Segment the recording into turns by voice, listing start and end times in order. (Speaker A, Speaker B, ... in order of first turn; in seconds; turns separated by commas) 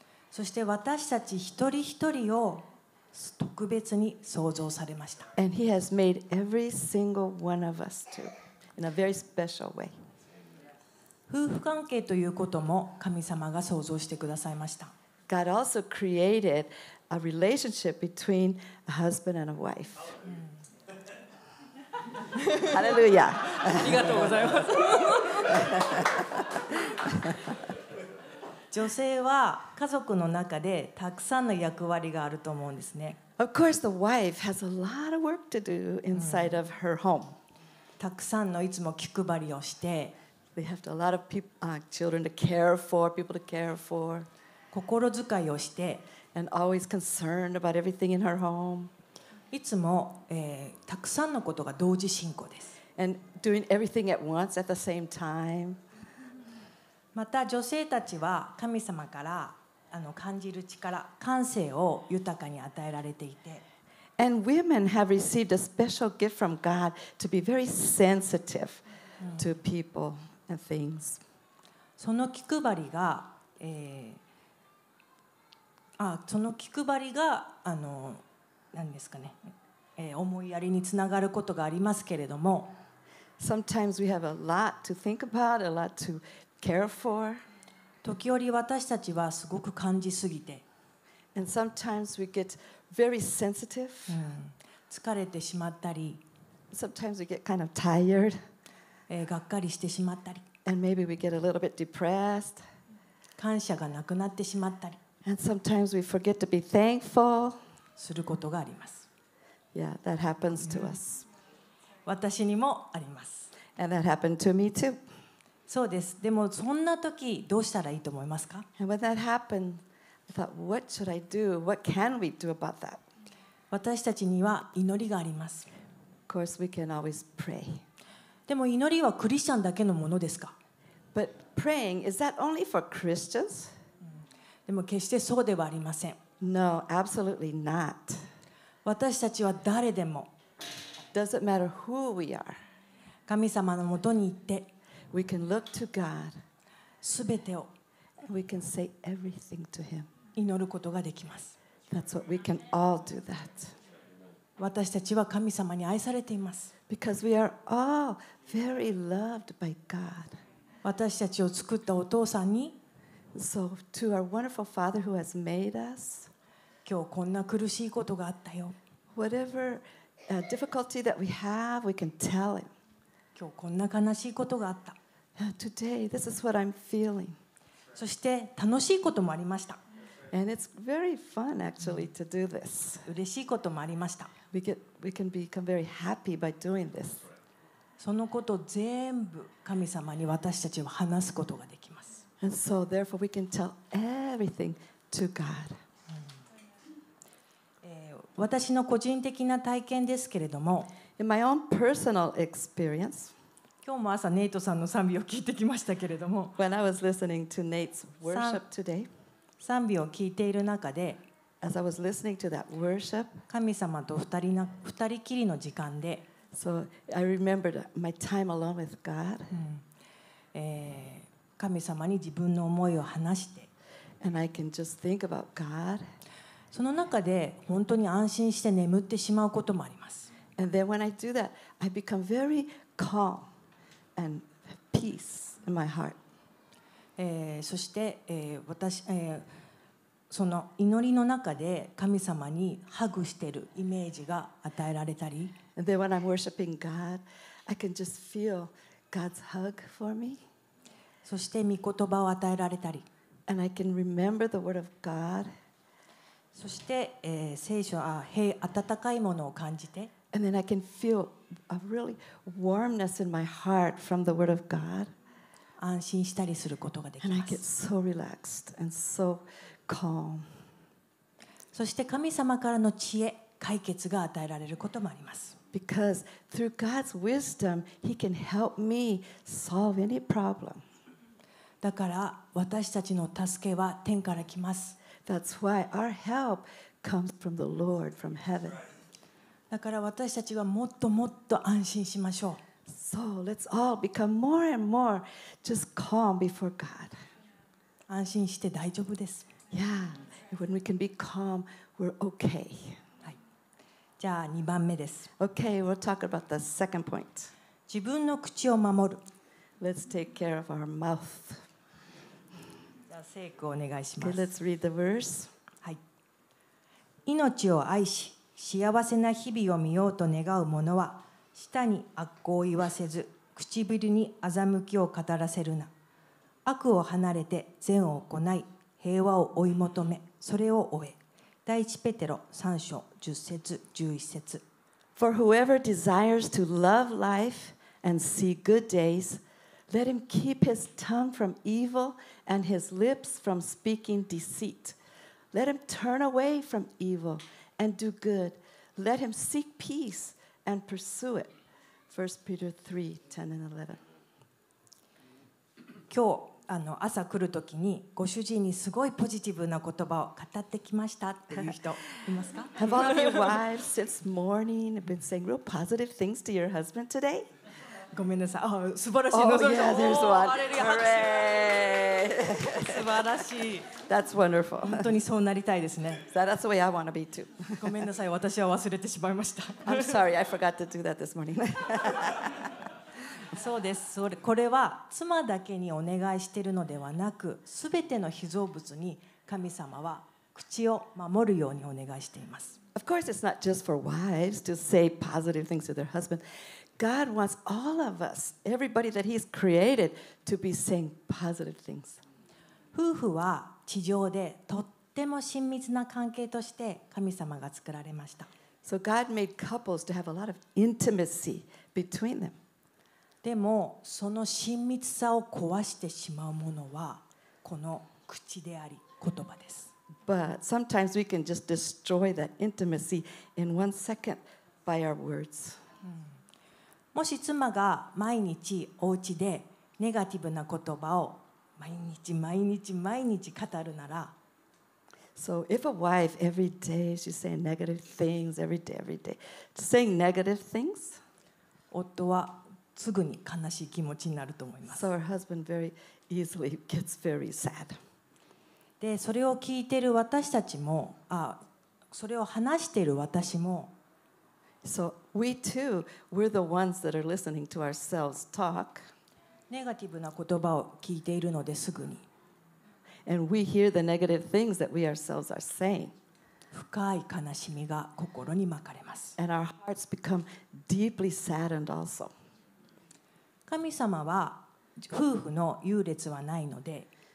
Speaker A: 0.3-5.3, Speaker B: 5.4-9.9, Speaker A: 11.3-14.9, Speaker B: 15.3-20.2, Speaker A: 22.4-22.7, Speaker B: 22.6-24.4, Speaker A: 23.7-25.8, Speaker B: 25.4-27.5, Speaker A: 28.7-33.2, Speaker B: 33.4-37.4, Speaker A: 36.1-36.5, Speaker A: 38.0-40.1, Speaker B: 40.5-44.3, Speaker A: 44.7-46.0, Speaker B: 46.3-48.9, Speaker A: 49.5-52.8, Speaker B: 53.0-55.8, Speaker A: 57.1-63.6, Speaker B: 64.2-68.8, Speaker B: 69.4-71.2, Speaker A: 72.0-74.2, Speaker A: 76.0-79.4, Speaker A: 80.0-82.8, Speaker B: 83.4-87.4, Speaker A: 88.0-90.6, Speaker B: 91.3-94.2, Speaker A: 94.1-96.2, Speaker B: 96.7-98.4, Speaker A: 99.1-100.4, Speaker B: 100.7-102.6, Speaker A: 103.4-105.0, Speaker B: 105.2-107.6, Speaker A: 108.0-109.1, Speaker B: 109.7-111.3, Speaker A: 112.1-113.5, Speaker B: 113.8-115.0, Speaker A: 115.7-118.7, Speaker B: 118.8-123.0, Speaker A: 123.7-125.7, Speaker B: 126.3-127.8, Speaker A: 128.5-130.6, Speaker B: 131.1-133.7, Speaker A: 134.7-136.2, Speaker B: 136.4-138.3, Speaker A: 138.8-140.3, Speaker B: 141.1-142.6, Speaker A: 143.3-144.7, Speaker B: 145.1-146.3, Speaker A: 147.0-147.7, Speaker B: 148.2-150.1, Speaker A: 150.4-151.6, Speaker B: 151.9-153.8, Speaker A: 154.6-156.7, Speaker B: 156.9-160.4, Speaker A: 160.8-162.8, Speaker B: 163.3-166.3, Speaker A: 166.9-168.8, Speaker B: 169.2-172.7, Speaker A: 173.3-175.0, Speaker B: 175.4-177.4, Speaker A: 177.9-179.8, Speaker B: 180.3-183.1, Speaker A: 183.1-184.3, Speaker B: 184.5-187.2, Speaker A: 188.0-192.2, Speaker B: 192.4-195.8, Speaker A: 197.8-200.9, Speaker B: 201.2-203.3, Speaker A: 203.8-206.6, Speaker B: 206.6-209.1, Speaker A: 208.3-208.6, Speaker A: 209.6-211.2, Speaker B: 211.6-213.4, Speaker A: 213.5-216.3, Speaker B: 216.5-219.5, Speaker A: 219.5-219.8, Speaker A: 220.5-223.7, Speaker B: 224.2-226.0, Speaker A: 226.7-230.3, Speaker B: 230.6-233.5, Speaker B: 234.2-236.2, Speaker A: 237.2-239.5, Speaker A: 240.3-245.6, Speaker B: 245.8-250.4, Speaker A: 251.2-253.1, Speaker B: 253.5-255.5, Speaker A: 256.6-260.1, Speaker B: 260.3-265.1, Speaker A: 265.8-267.6, Speaker B: 267.2-270.6, Speaker A: 271.7-275.6, Speaker B: 275.7-280.8, Speaker A: 281.8-285.0, Speaker B: 285.3-288.8, Speaker A: 289.7-292.6, Speaker B: 292.9-297.1, Speaker A: 298.1-299.5, Speaker B: 299.7-303.0, Speaker A: 304.2-305.3, Speaker B: 305.4-307.5, Speaker A: 307.9-309.2, Speaker B: 309.8-311.6, Speaker A: 313.1-314.5, Speaker B: 314.2-315.5, Speaker A: 317.3-325.9, Speaker A: 326.7-334.6, Speaker B: 335.2-345.0, Speaker B: 345.5-351.5, Speaker B: 352.1-354.0, Speaker A: 356.1-363.6, Speaker B: 362.8-367.5, Speaker A: 368.1-371.7, Speaker B: 369.3-373.1, Speaker A: 372.5-373.9, Speaker B: 373.9-375.1, Speaker A: 374.8-376.2, Speaker B: 376.2-377.9, Speaker A: 377.8-380.1, Speaker B: 379.9-382.7, Speaker A: 383.5-392.8, Speaker B: 392.9-396.4, Speaker B: 397.0-402.2, Speaker A: 402.9-408.5, Speaker B: 408.8-412.6, Speaker A: 413.4-419.9, Speaker B: 420.3-425.8, Speaker A: 427.1-434.3, Speaker B: 435.4-441.2, Speaker A: 441.9-445.1, Speaker B: 444.9-448.0, Speaker A: 449.0-451.6, Speaker A: 452.1-453.9, Speaker B: 454.8-459.0, Speaker A: 459.7-462.3, Speaker B: 463.3-466.1, Speaker A: 466.7-469.4, Speaker B: 469.4-472.3, Speaker A: 473.7-477.1